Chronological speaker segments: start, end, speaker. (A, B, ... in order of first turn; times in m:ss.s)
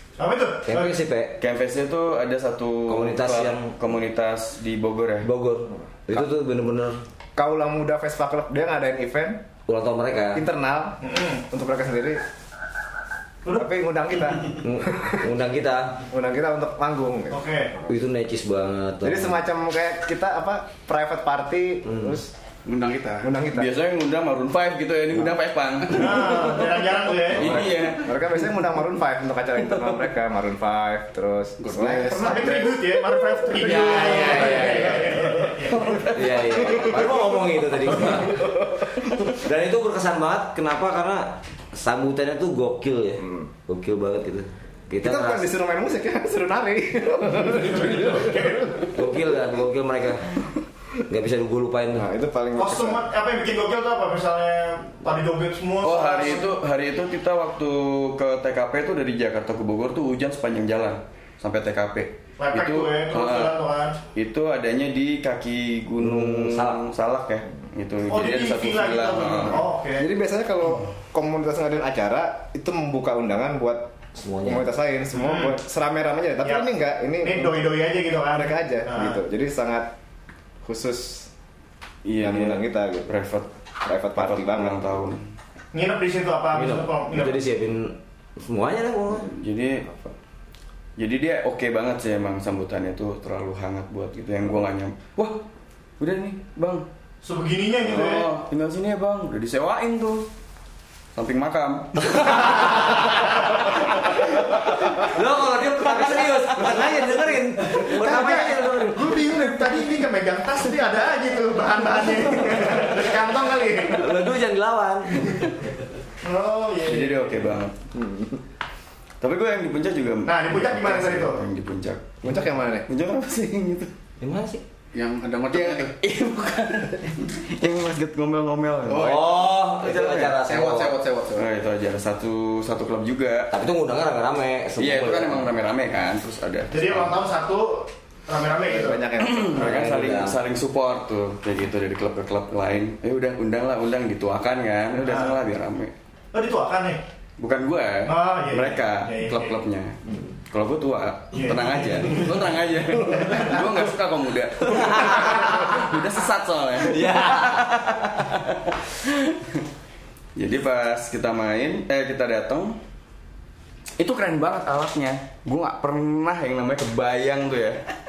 0:00.2-0:01.0 A
0:00.7-0:01.4 B
0:01.4-0:05.3 C
0:02.9-0:03.8 B
0:05.2-0:07.0 B
0:07.4-0:09.4 D
0:09.7-0:10.4 B
0:10.3-0:11.0 D
0:11.0-0:11.4 A
0:11.5-0:12.2 D
0:13.5-0:15.2 D
0:14.6-0:16.0 B
0:16.1-0:17.9 D
0:17.3-0:17.7 A
0:17.9-0:19.4 B
0:19.0-0:22.3 D
0:22.6-0:23.3 E
0:23.2-0:23.7 D
0:23.5-0:26.8 C
0:25.9-0:27.7 A
0:27.3-0:28.3 C
0:27.3-0:32.2 D
0:31.6-0:33.0 C
0:31.7-0:32.0 E
0:32.1-0:36.1 A
0:33.6-0:35.3 B
0:33.6-0:37.0 C
0:36.1-0:38.5 B
0:39.3-0:45.5 B
0:43.2-0:43.5 D
0:45.0-0:49.0 D
0:47.7-0:48.7 A
0:48.9-0:50.3 B
0:51.1-0:52.1 B
0:52.0-0:53.1 D
0:52.6-0:56.5 A
0:55.8-1:03.6 C
1:02.4-1:04.0 A
1:04.2-1:09.7 C
1:06.0-1:06.8 B
1:08.1-1:10.1 A
1:10.0-1:17.8 D
1:14.2-1:14.6 B
1:15.2-1:15.6 A
1:16.4-1:16.7 A
1:17.2-1:19.2 A
1:18.3-1:19.9 D
1:20.6-1:21.3 D
1:22.0-1:23.5 C
1:22.2-1:23.1 D
1:23.8-1:24.9 D
1:24.2-1:25.2 C
1:25.7-1:27.4 A
1:26.5-1:29.3 B
1:29.2-1:29.9 C
1:31.0-1:35.4 C
1:36.0-1:36.9 C
1:37.2-1:38.3 A
1:37.8-1:40.3 C
1:41.2-1:43.6 C
1:42.1-1:43.4 B
1:44.9-1:49.2 B
1:45.9-1:47.1 C
1:47.8-1:48.5 C
1:48.0-1:54.2 A
1:53.9-1:55.4 B
1:56.2-1:57.5 A
1:56.9-1:57.8 C
1:57.9-1:58.4 D
1:59.2-2:02.3 C
2:00.3-2:01.4 A
2:02.2-2:02.9 D
2:02.9-2:03.9 C
2:04.2-2:04.6 B
2:04.9-2:06.0 E
2:05.5-2:10.4 C
2:08.9-2:09.3 E
2:08.9-2:11.0 B
2:10.4-2:11.5 E
2:11.4-2:13.5 C
2:13.5-2:15.5 B
2:14.8-2:17.2 C
2:16.7-2:19.1 A
2:18.6-2:19.6 D
2:19.2-2:25.9 C
2:19.5-2:20.4 B
2:25.0-2:25.4 A
2:26.3-2:27.0 A
2:27.4-2:30.0 C
2:28.1-2:29.6 A
2:30.5-2:39.6 C
2:31.3-2:32.4 A
2:33.1-2:33.5 A
2:34.8-2:35.5 B
2:34.8-2:35.2 A
2:36.9-2:37.8 B
2:40.4-2:42.8 C
2:44.0-2:47.8 C